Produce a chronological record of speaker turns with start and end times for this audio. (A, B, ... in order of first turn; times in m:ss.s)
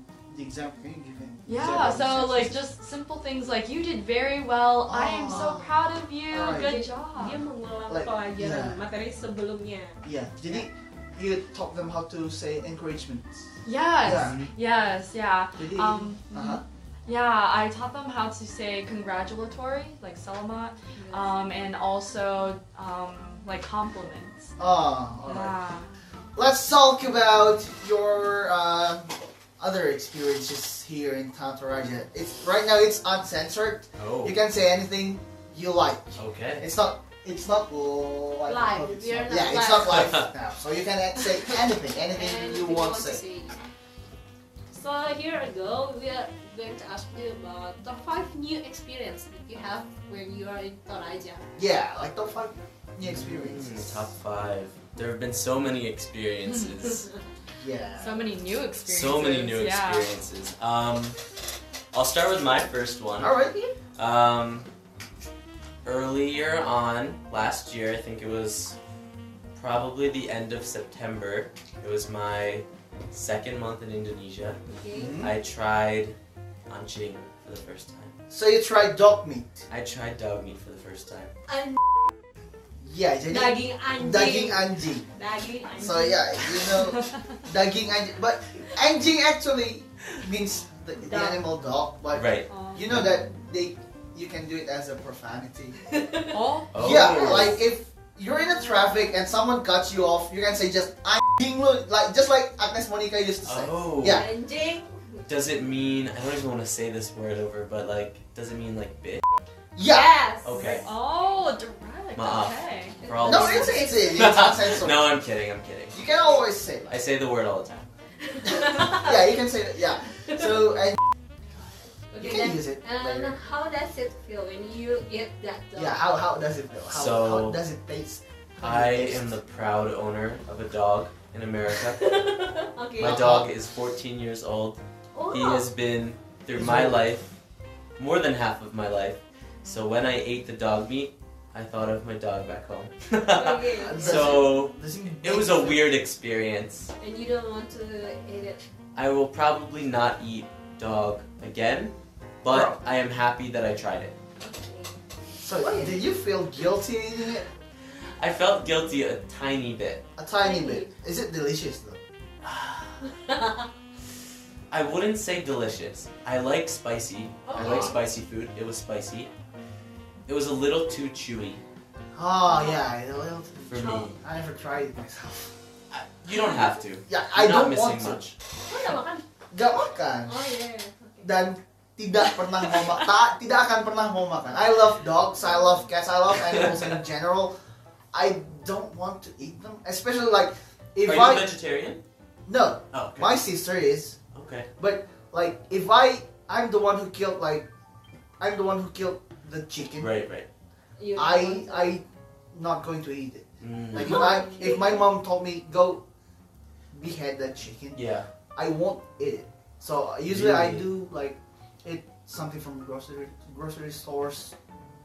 0:00.3-0:02.6 A
0:01.4-0:07.4 B
0:04.8-0:05.7 A
0:06.3-0:06.8 A
0:06.4-0:10.0 C
0:07.9-0:08.8 A
0:10.0-0:13.5 A
0:13.6-0:24.5 B
0:14.0-0:14.4 A
0:14.0-0:14.5 D
0:15.6-0:16.6 A
0:21.0-0:21.4 C
0:24.6-0:25.6 A
0:25.2-0:25.9 B
0:26.3-0:43.2 A
0:34.0-0:34.4 D
0:36.2-0:36.6 D
0:38.5-0:40.2 C
0:39.9-0:40.2 D
0:42.0-0:43.6 C
0:44.7-0:51.4 C
0:51.6-0:54.0 A
0:53.0-0:57.1 D
0:56.5-0:56.7 B
0:57.6-0:58.3 A
0:58.0-1:00.1 B
0:58.8-1:01.2 D
1:01.9-1:03.3 D
1:03.2-1:03.6 A
1:04.0-1:04.7 D
1:05.8-1:08.8 D
1:09.6-1:14.6 D
1:14.6-1:15.2 C
1:14.9-1:15.3 A
1:15.2-1:16.2 D
1:16.7-1:18.2 D
1:18.3-1:19.6 A
1:19.7-1:21.3 D
1:21.5-1:21.8 C
1:22.8-1:25.1 A
1:23.3-1:26.8 C
1:25.8-1:35.8 A
1:31.0-1:31.4 C
1:32.1-1:33.1 D
1:32.5-1:32.9 B
1:35.9-1:36.4 C
1:36.3-1:37.4 B
1:36.7-1:37.6 D
1:36.8-1:44.3 A
1:43.4-1:44.3 D
1:44.0-1:45.2 C
1:45.2-1:49.2 D
1:49.7-1:50.2 A
1:49.8-1:50.7 C
1:50.4-1:50.9 D
1:50.6-1:53.0 B
1:52.2-1:56.0 D
1:53.0-1:54.4 C
1:53.2-1:55.1 A
1:55.9-1:57.0 A
1:56.9-1:57.9 D
1:58.2-1:59.2 C
1:58.6-2:01.0 A
2:02.1-2:06.0 C
2:02.2-2:03.3 A
2:05.7-2:09.4 A
2:06.9-2:07.6 D
2:08.6-2:12.0 D
2:11.8-2:13.2 C
2:13.0-2:13.5 A
2:13.0-2:17.3 D
2:15.1-2:15.7 C
2:16.5-2:17.1 A
2:18.0-2:26.9 D
2:23.3-2:24.5 C
2:23.8-2:26.0 A
2:27.0-2:28.6 C
2:28.9-2:34.2 D
2:32.5-2:32.8 A
2:34.4-2:35.0 C
2:35.4-2:37.5 A
2:35.6-2:36.0 C
2:38.2-2:40.0 D
2:40.2-2:42.0 A
2:40.4-2:40.9 C
2:42.4-2:43.0 D
2:43.0-2:43.7 C
2:44.7-2:49.3 D
2:47.5-2:48.0 C
2:47.6-2:47.9 A
2:50.2-2:51.6 D
2:52.1-2:55.6 A
2:52.5-2:52.8 C
2:53.7-2:54.2 D
2:55.9-2:58.4 D
2:57.1-2:58.2 A
2:58.6-2:59.2 C
2:59.5-3:00.5 A
3:00.2-3:01.3 C
3:01.2-3:07.5 A
3:02.6-3:02.9 C
3:06.5-3:06.8 D
3:08.1-3:11.5 A
3:11.0-3:12.0 D
3:12.5-3:14.2 A
3:12.9-3:13.3 D
3:14.3-3:14.7 D
3:14.8-3:17.7 A
3:18.4-3:20.1 A
3:20.0-3:20.4 D
3:21.0-3:22.0 C
3:21.1-3:26.0 A
3:23.6-3:24.4 D
3:23.9-3:25.1 C
3:26.9-3:28.0 A
3:27.9-3:28.3 D
3:28.5-3:34.5 A
3:30.3-3:30.9 D